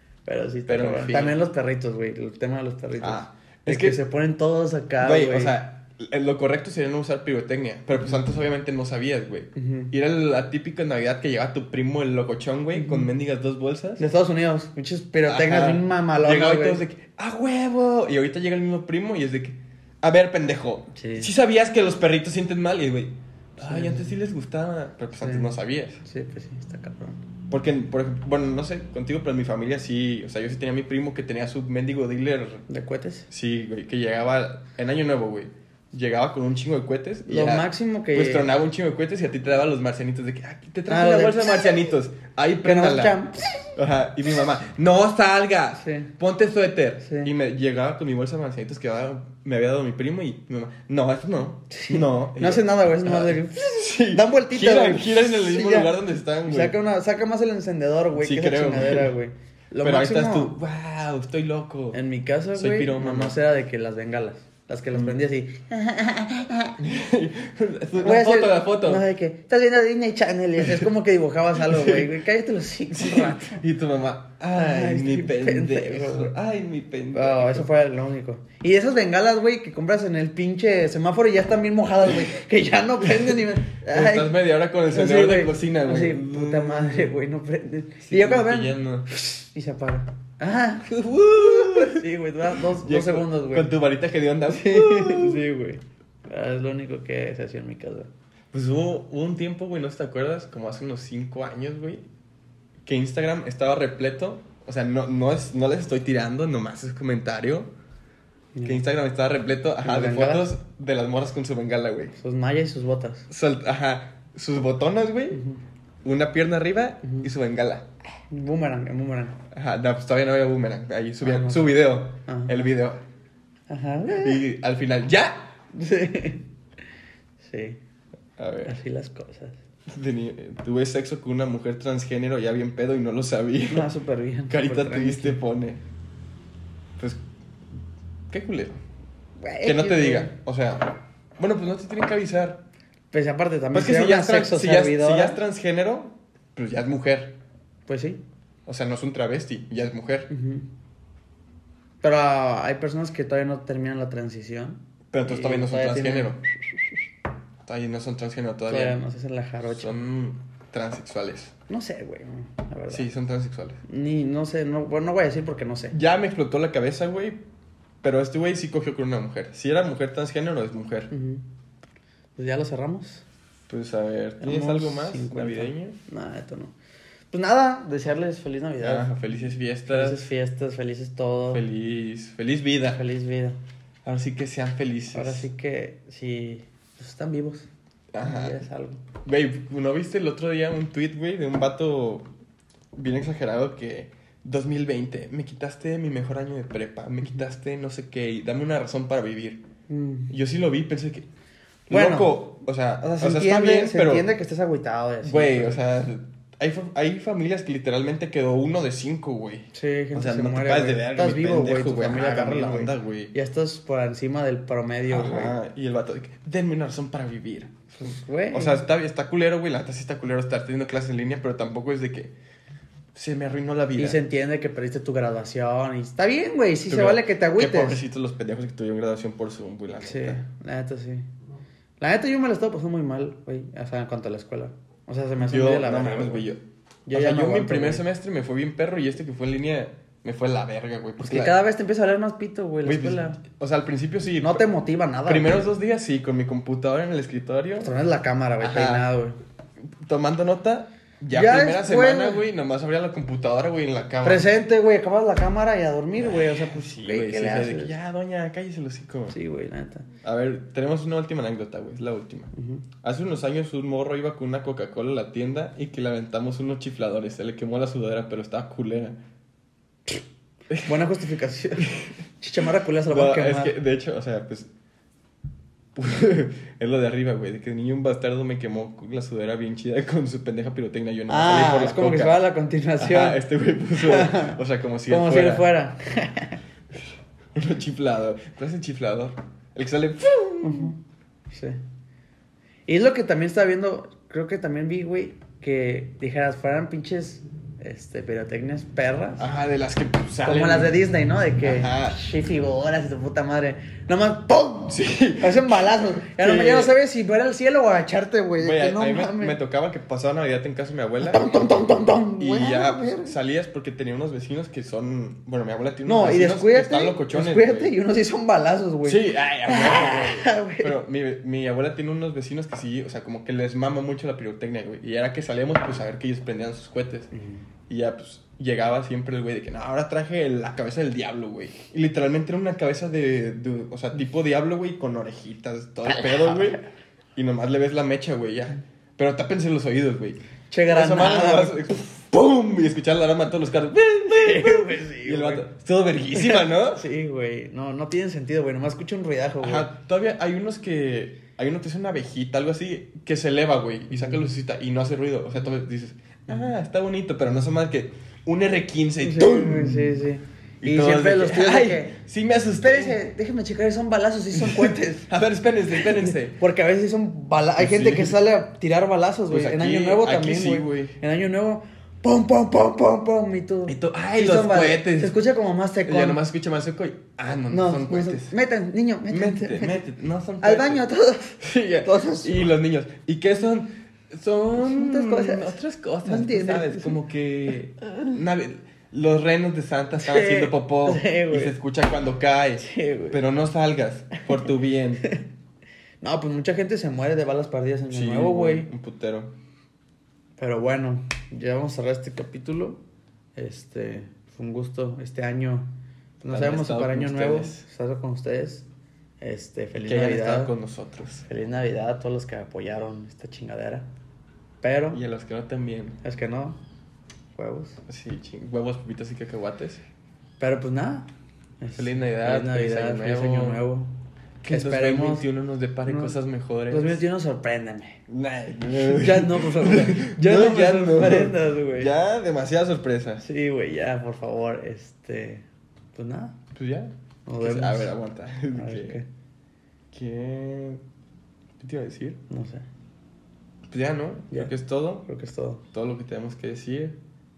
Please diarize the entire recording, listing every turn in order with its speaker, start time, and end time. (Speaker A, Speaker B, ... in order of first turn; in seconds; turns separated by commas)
Speaker A: 0.3-5.6, Speaker B: 0.7-1.4, Speaker B: 3.0-4.0, Speaker B: 5.0-14.0, Speaker A: 9.6-9.9, Speaker A: 12.7-13.1, Speaker A: 14.0-16.8, Speaker B: 15.3-26.0, Speaker A: 20.9-21.3, Speaker A: 23.6-24.1, Speaker A: 25.1-27.2, Speaker B: 27.5-32.6, Speaker A: 32.7-33.3, Speaker B: 33.3-43.2, Speaker A: 37.3-38.5, Speaker A: 40.9-41.7, Speaker A: 42.6-43.7, Speaker B: 43.7-56.8, Speaker A: 45.8-46.1, Speaker A: 47.0-47.3, Speaker A: 51.7-55.9, Speaker A: 56.5-60.5, Speaker B: 58.2-59.1, Speaker B: 59.8-62.0, Speaker A: 61.9-66.8, Speaker B: 62.5-63.4, Speaker B: 66.8-69.0, Speaker A: 68.0-73.6, Speaker B: 70.6-70.9, Speaker B: 71.6-72.1, Speaker B: 72.9-77.7, Speaker A: 74.6-76.3, Speaker A: 77.1-93.7, Speaker B: 83.9-87.1, Speaker B: 88.0-89.1, Speaker B: 90.9-95.4, Speaker A: 94.5-98.1, Speaker B: 98.5-102.0, Speaker B: 102.8-107.7, Speaker A: 108.5-108.8, Speaker B: 108.6-112.2, Speaker A: 109.8-110.5, Speaker A: 112.2-113.3, Speaker B: 113.3-115.4, Speaker A: 115.3-115.6, Speaker B: 116.0-117.9, Speaker A: 118.3-119.4, Speaker B: 119.5-123.0, Speaker A: 121.2-122.7, Speaker A: 123.7-124.4, Speaker B: 124.2-125.5, Speaker A: 125.7-126.4, Speaker A: 127.4-127.8, Speaker B: 128.4-128.7, Speaker A: 128.6-129.6, Speaker B: 129.9-133.9, Speaker A: 133.7-135.4, Speaker B: 134.5-135.8, Speaker B: 138.3-138.8, Speaker A: 139.4-140.3, Speaker B: 139.6-142.6, Speaker A: 143.1-145.4, Speaker B: 143.7-147.3, Speaker A: 147.9-148.2, Speaker B: 148.7-150.3, Speaker A: 150.3-150.7, Speaker A: 152.0-156.4, Speaker B: 155.1-156.4, Speaker B: 157.6-159.0, Speaker A: 158.7-159.9, Speaker B: 159.7-161.5, Speaker A: 161.7-163.1, Speaker B: 162.9-163.8, Speaker A: 163.9-165.9, Speaker B: 165.9-167.4, Speaker B: 168.0-171.1, Speaker A: 171.1-171.4, Speaker A: 172.4-173.2, Speaker B: 173.7-176.0, Speaker A: 174.4-176.7, Speaker A: 177.3-181.6, Speaker B: 178.8-180.2, Speaker B: 181.5-183.0, Speaker A: 182.9-183.6, Speaker B: 184.0-185.5, Speaker A: 185.1-187.7, Speaker B: 188.1-188.6, Speaker A: 188.2-189.0, Speaker B: 189.2-192.3, Speaker B: 192.9-199.6, Speaker A: 199.9-200.3, Speaker B: 200.3-201.3, Speaker B: 201.9-204.3, Speaker A: 201.9-202.4, Speaker A: 203.0-205.8, Speaker B: 205.2-213.3, Speaker A: 209.7-215.6, Speaker B: 215.1-222.3, Speaker A: 218.0-218.8, Speaker B: 223.1-224.2, Speaker A: 223.9-228.0, Speaker B: 226.9-230.4, Speaker A: 230.0-231.3, Speaker A: 232.0-236.4, Speaker B: 235.4-241.6, Speaker A: 237.1-238.0, Speaker A: 241.2-243.4, Speaker B: 242.8-244.6, Speaker A: 244.4-245.7, Speaker B: 245.3-247.9, Speaker A: 247.8-249.4, Speaker B: 248.6-249.1, Speaker B: 250.0-254.4, Speaker A: 251.3-252.4, Speaker A: 254.2-257.9, Speaker B: 256.2-259.4, Speaker A: 259.3-260.1, Speaker B: 260.2-262.5, Speaker A: 262.6-262.8, Speaker B: 263.0-269.2, Speaker B: 270.7-271.1, Speaker A: 270.8-273.7, Speaker B: 271.8-272.1, Speaker B: 273.1-274.7, Speaker B: 275.9-282.4, Speaker A: 281.3-283.4, Speaker B: 283.0-285.7, Speaker A: 284.0-286.6, Speaker B: 287.5-290.9, Speaker A: 290.6-291.0, Speaker A: 291.5-291.8, Speaker A: 292.9-299.5, Speaker B: 299.4-301.0, Speaker A: 300.4-309.6, Speaker B: 301.6-302.2, Speaker B: 304.9-306.9, Speaker B: 308.6-311.5, Speaker A: 311.2-313.4, Speaker B: 312.4-317.9, Speaker A: 316.1-320.9, Speaker B: 319.0-327.3, Speaker A: 327.3-327.6, Speaker B: 327.9-336.8, Speaker A: 336.1-336.8, Speaker B: 337.4-347.1, Speaker A: 340.7-342.0, Speaker A: 344.3-345.7, Speaker A: 346.4-349.9, Speaker B: 349.6-360.3, Speaker A: 354.1-354.4, Speaker A: 359.2-362.2, Speaker B: 360.8-363.1, Speaker A: 362.8-365.3, Speaker B: 364.5-366.6, Speaker A: 366.1-376.4, Speaker B: 367.8-368.4, Speaker B: 369.5-371.2, Speaker B: 373.9-375.4, Speaker B: 376.1-378.5, Speaker A: 377.7-380.0, Speaker B: 379.3-381.1, Speaker A: 380.6-382.7, Speaker B: 381.6-395.2, Speaker A: 384.8-387.2, Speaker A: 390.2-391.7, Speaker A: 392.8-393.4, Speaker A: 396.2-398.9, Speaker B: 398.1-399.5, Speaker A: 400.6-403.0, Speaker A: 403.6-405.9, Speaker A: 406.4-408.9, Speaker B: 406.5-407.9, Speaker A: 409.4-410.7, Speaker B: 410.0-411.4, Speaker A: 411.5-414.1, Speaker A: 414.8-415.2, Speaker B: 415.1-416.2, Speaker A: 416.2-416.8, Speaker A: 417.6-418.0, Speaker B: 418.1-420.0, Speaker A: 420.6-421.3, Speaker A: 421.8-424.1, Speaker B: 421.9-423.8, Speaker B: 424.6-427.2, Speaker A: 424.7-425.4, Speaker A: 426.1-426.3, Speaker A: 426.9-428.2, Speaker B: 428.3-433.4, Speaker A: 429.0-432.1, Speaker A: 433.4-436.6, Speaker B: 436.7-439.2, Speaker A: 437.4-438.1, Speaker A: 438.7-439.3, Speaker B: 440.1-441.0, Speaker B: 441.8-442.4, Speaker A: 442.5-442.9, Speaker B: 443.9-445.2, Speaker A: 445.2-445.8, Speaker B: 445.9-447.2